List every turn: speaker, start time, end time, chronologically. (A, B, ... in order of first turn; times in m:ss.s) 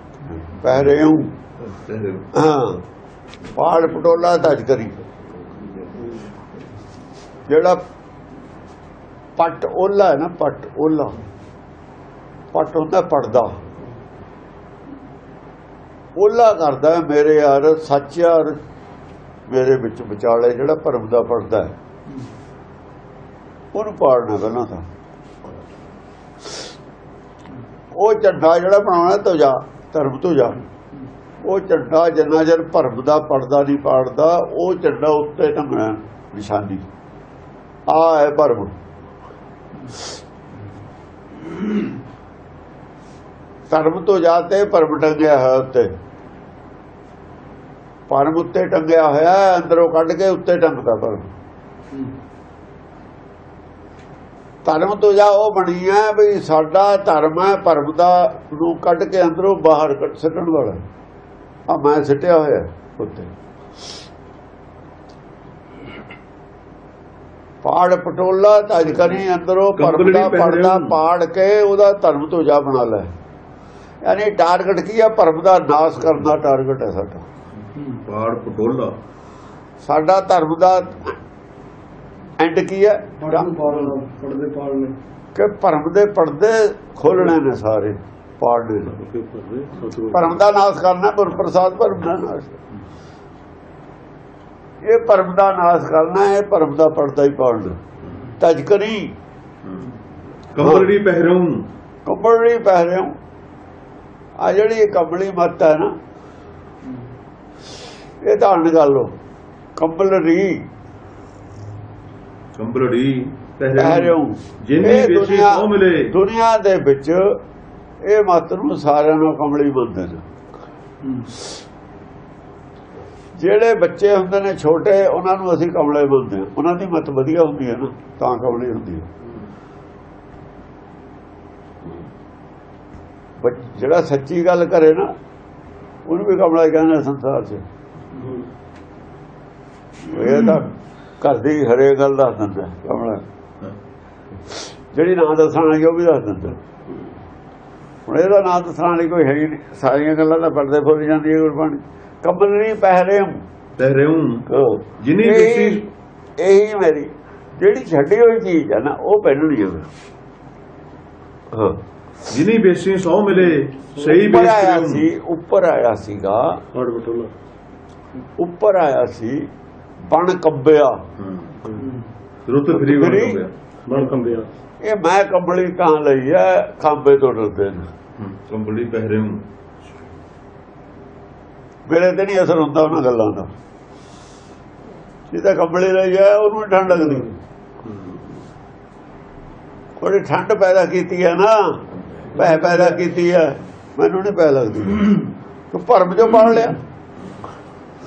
0:00.3-0:01.3 A
0:01.7-0:02.3 B
0:02.4-0:02.8 A
0:03.6-0:05.0 A
0:07.5-0:07.8 A
0:09.4-0:11.1 A
0:12.5-0:13.6 A
0:16.2-0:18.6 A
0:19.5-0:21.7 A
0:23.7-0:24.8 A
0:28.0-0:30.6 A
0:31.4-0:36.8 A
0:37.9-0:38.7 A
0:43.7-0:45.9 A
0:48.1-0:51.3 A
0:54.6-1:00.8 A
1:01.7-1:03.3 A
1:07.6-1:13.1 A
1:09.8-1:11.0 B
1:14.0-1:17.2 A
1:18.0-1:19.0 B
1:19.8-1:21.1 A
1:22.4-1:23.8 A
1:23.2-1:25.0 C
1:25.4-1:29.0 A
1:28.9-1:30.3 C
1:30.1-1:32.5 A
1:34.8-1:37.8 A
1:38.4-1:39.1 A
1:39.7-1:39.9 B
1:40.5-1:41.6 B
1:40.6-1:40.9 A
1:42.1-1:43.1 A
1:44.4-1:45.9 A
1:48.2-1:49.1 A
1:49.8-1:50.6 A
1:52.6-1:56.2 B
1:53.8-1:57.4 A
1:58.0-2:00.2 A
2:01.0-2:01.3 C
2:03.4-2:09.1 A
2:13.4-2:15.1 A
2:16.1-2:17.6 A
2:20.0-2:23.2 A
2:24.9-2:26.6 A
2:28.1-2:33.4 A
2:33.8-2:34.5 B
2:34.5-2:35.9 A
2:35.0-2:35.8 B
2:36.4-2:39.9 A
2:41.5-2:41.8 A
2:42.3-2:45.1 B
2:44.0-2:46.6 A
2:46.7-2:47.3 C
2:48.4-2:49.4 A
2:50.1-2:51.0 A
2:51.2-2:51.6 B
2:52.5-2:53.5 B
2:52.7-2:53.4 A
2:53.9-2:54.5 C
2:54.8-2:57.9 A
2:58.2-2:59.4 B
3:01.9-3:03.5 A
3:05.3-3:07.3 A
3:10.0-3:11.8 A
3:12.3-3:16.8 A
3:12.4-3:12.8 C